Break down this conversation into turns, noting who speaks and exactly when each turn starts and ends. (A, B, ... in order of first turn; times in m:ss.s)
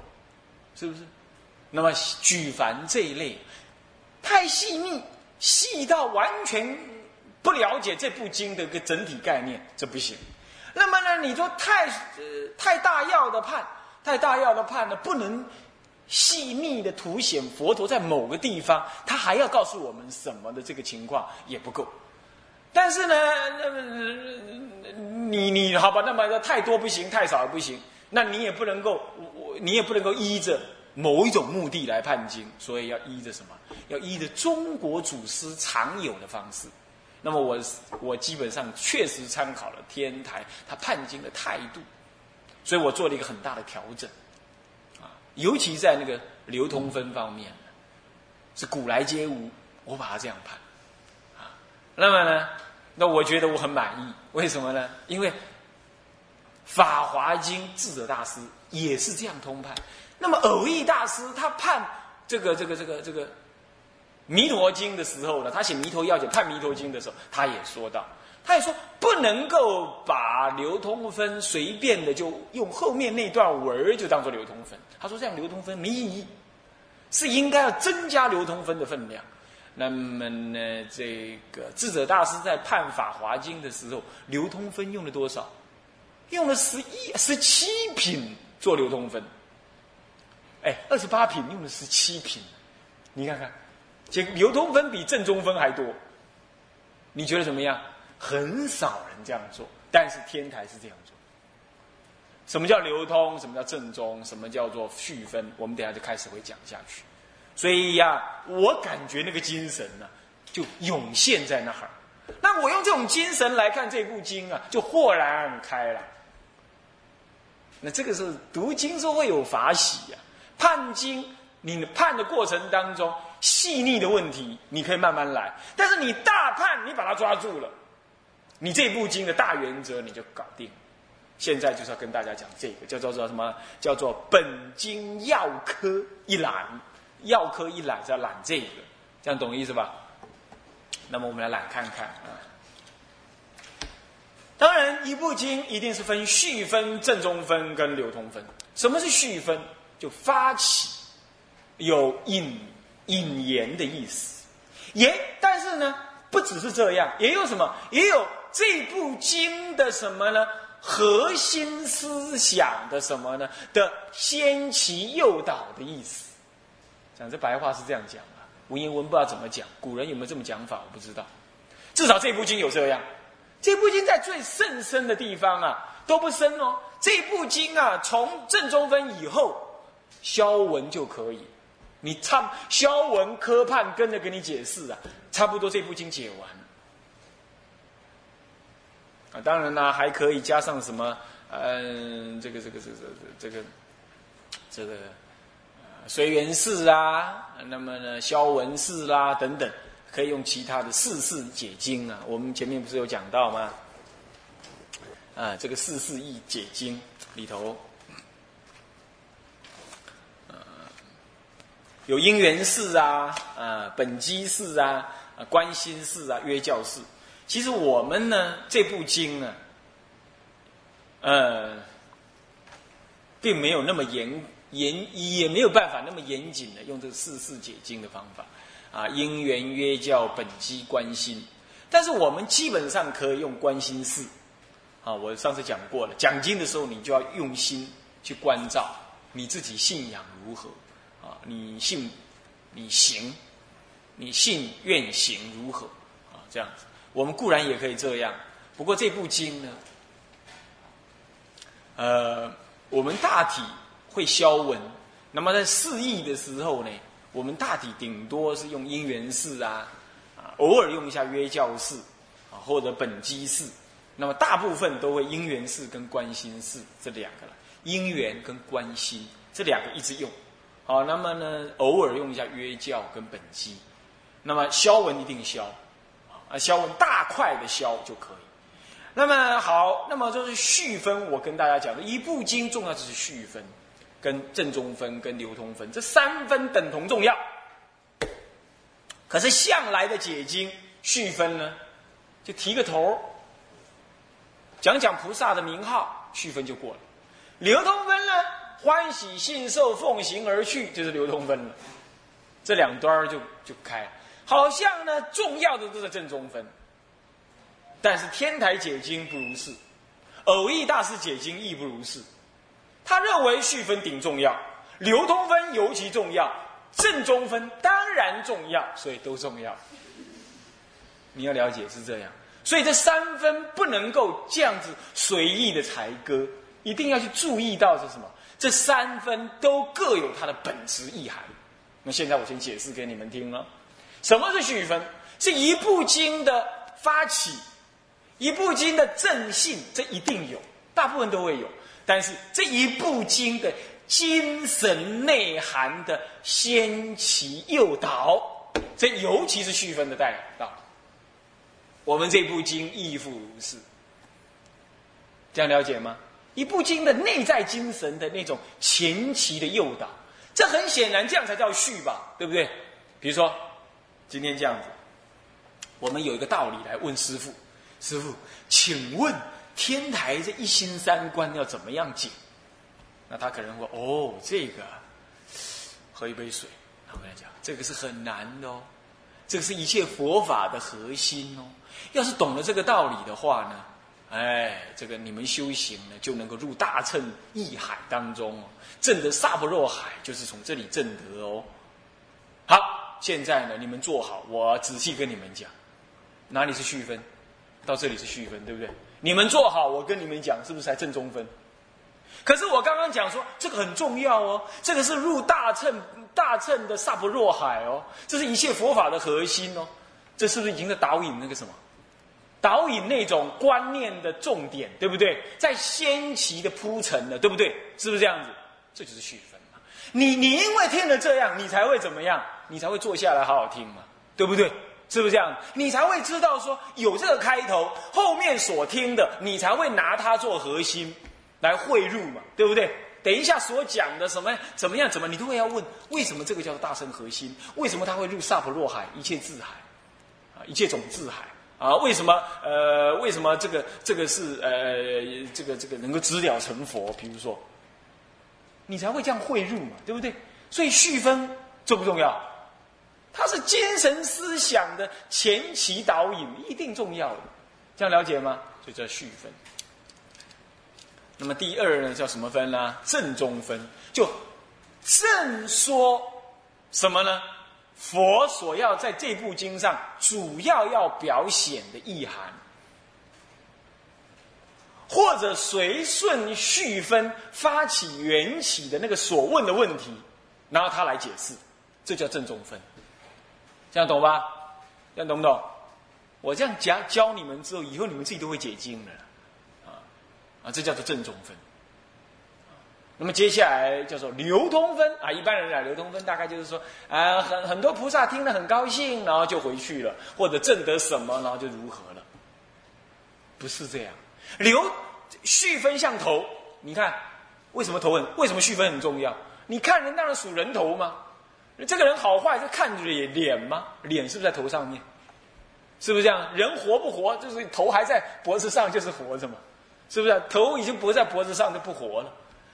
0:00.8-0:01.1 A
0:01.7-0:03.4 A
0:04.2-0:10.2 A
0:10.7-0:15.5 A
0:16.1-0:21.9 A
0:22.7-0:36.7 A
0:37.2-0:41.8 A
0:42.6-0:44.1 A
0:45.0-0:47.7 A
0:48.6-0:50.6 A
0:51.4-0:55.4 A
0:56.6-1:03.3 A
1:04.3-1:16.3 A
1:17.1-1:19.2 A
1:19.8-1:25.5 A
1:26.3-1:29.3 A
1:30.6-1:32.5 A
1:33.1-1:33.5 A
1:34.1-1:36.0 A
1:37.1-1:41.2 A
1:42.5-1:47.0 A
1:47.6-1:56.1 A
1:57.8-2:07.7 A
2:08.6-2:10.7 A
2:11.4-2:19.9 A
2:21.1-2:22.4 A
2:24.6-2:30.9 A
2:31.8-2:34.4 A
2:34.9-2:46.3 A
2:47.2-2:51.3 A
2:51.9-2:53.0 A
2:53.6-3:01.5 A
3:02.0-3:06.6 A
3:09.3-3:13.7 A
3:14.7-3:15.2 A
3:16.0-3:23.7 A
3:25.3-3:27.8 A
3:30.5-3:30.8 A
3:32.1-3:39.6 A
3:41.2-3:41.8 A
3:43.4-3:54.3 A
3:55.0-4:02.1 A
4:02.7-4:03.4 A
4:04.2-4:09.8 A
4:12.0-4:30.3 A
4:30.9-4:33.8 A
4:34.4-4:35.8 A
4:36.5-4:38.4 A
4:39.1-4:43.7 A
4:44.2-4:47.4 A
4:49.3-4:51.8 A
4:52.4-4:53.3 A
4:54.8-4:57.0 A
4:57.6-5:01.8 A
5:02.6-5:06.7 A
5:08.0-5:09.8 A
5:10.4-5:12.2 A
5:13.0-5:19.8 A
5:21.3-5:31.5 A
5:32.0-5:33.7 A
5:34.2-5:37.6 A
5:38.4-5:50.8 A
5:52.0-5:53.8 A
5:55.5-6:03.6 A
6:04.3-6:04.9 A
6:06.0-6:12.3 A
6:13.3-6:15.0 A
6:16.1-6:18.9 A
6:19.5-6:31.7 A
6:32.7-6:35.7 A
6:36.5-6:37.2 A
6:37.8-6:41.5 A
6:42.4-6:51.8 A
6:52.6-7:19.8 A
7:20.6-7:27.6 A
7:28.9-7:32.4 A
7:33.3-7:39.6 A
7:41.4-7:44.4 A
7:45.0-7:47.4 A
7:48.0-7:52.6 A
7:55.1-8:02.8 A
8:03.9-8:04.6 A
8:05.1-8:05.7 A
8:06.4-8:09.2 A
8:10.6-8:11.6 A
8:13.2-8:22.2 A
8:23.6-8:31.2 A
8:31.8-8:35.0 A
8:36.0-8:42.3 A